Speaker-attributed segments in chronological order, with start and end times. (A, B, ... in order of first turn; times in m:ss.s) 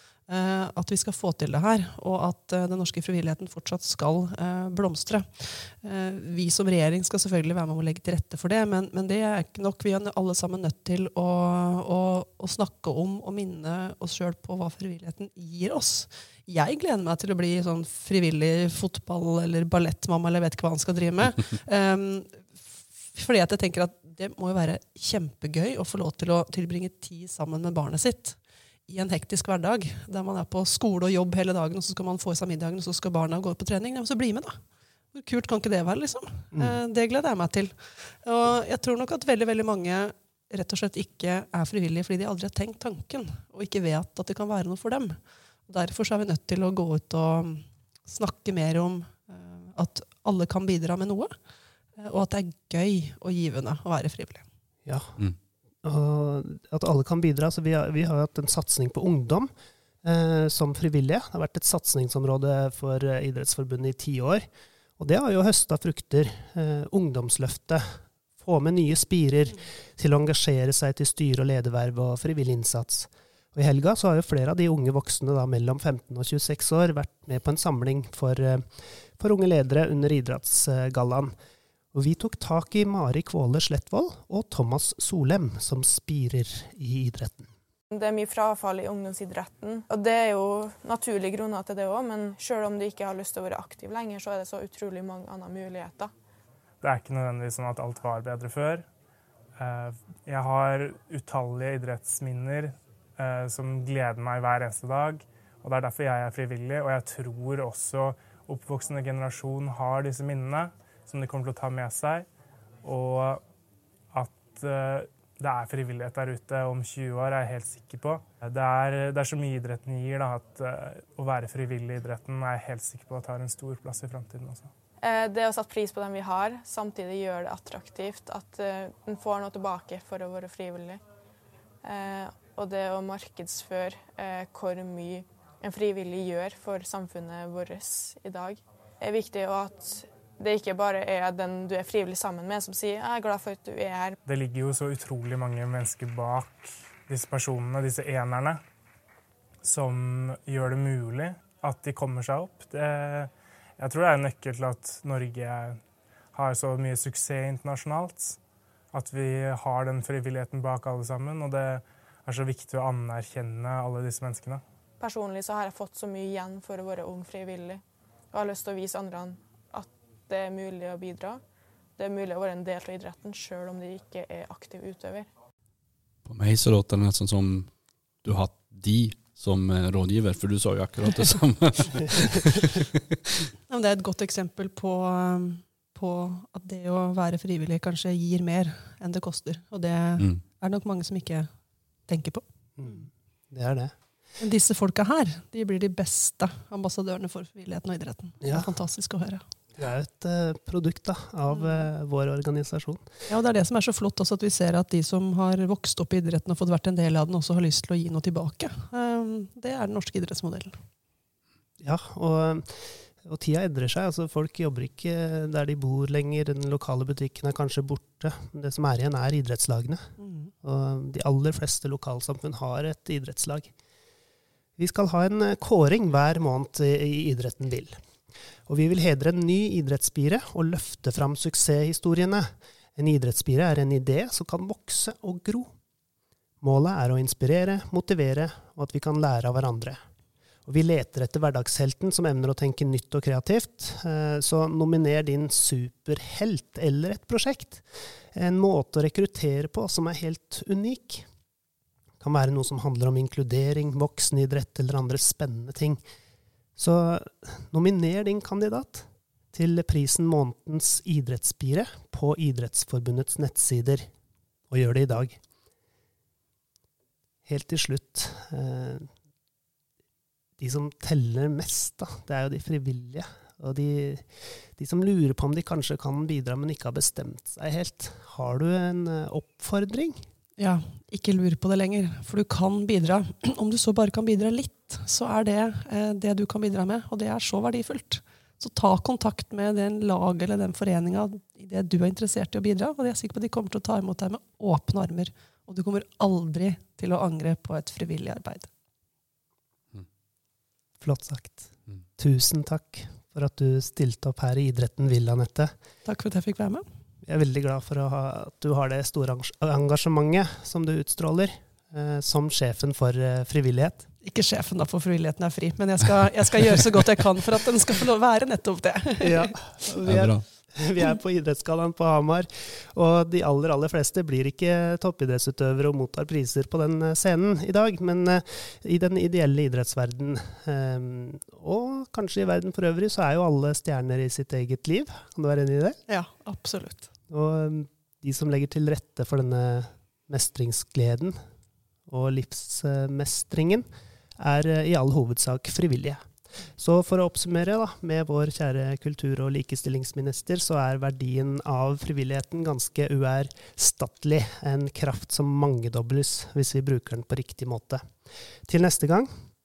0:00.3-0:22.6 A
0:23.1-0:34.6 A
0:35.1-0:51.3 A
0:36.5-0:36.8 B
0:52.0-0:54.5 A
0:54.8-0:55.2 B
0:55.8-0:59.5 B
1:00.0-1:04.5 B
1:05.0-1:21.3 B
1:21.9-1:27.5 B
1:27.9-1:36.1 C
1:36.8-1:38.9 D
1:39.6-1:52.3 D
1:52.8-1:53.4 D
1:54.1-2:04.7 D
2:05.0-2:11.0 C
2:11.8-2:24.2 C
2:24.3-2:28.6 D
2:29.6-2:35.8 D
2:36.3-2:38.4 D
2:38.9-2:44.6 D
2:45.0-2:51.4 C
2:52.0-2:55.3 C
2:56.3-2:57.7 E
2:58.2-3:02.9 E
3:03.7-3:11.5 A
3:12.1-3:13.1 A
3:12.8-3:14.0 B
3:14.4-3:19.4 A
3:18.4-3:18.7 B
3:19.8-3:23.0 B
3:21.5-3:21.9 A
3:23.3-3:30.8 A
3:31.8-3:40.1 B
3:40.2-3:40.5 A
3:40.6-3:43.7 B
3:44.8-3:48.0 B
3:48.6-3:55.7 B
3:56.6-4:00.0 B
4:00.7-4:11.3 B
4:12.2-4:16.0 B
4:16.8-4:24.1 B
4:24.7-4:25.4 B
4:27.4-4:29.1 B
4:30.6-4:40.3 B
4:40.6-4:58.7 A
5:01.0-5:05.7 B
5:06.0-5:06.8 A
5:07.2-5:14.1 B
5:14.2-5:19.5 A
5:19.2-5:36.0 B
5:20.0-5:20.4 E
5:36.1-5:37.1 A
5:37.3-5:41.4 B
5:42.1-5:43.9 B
5:44.4-5:59.3 B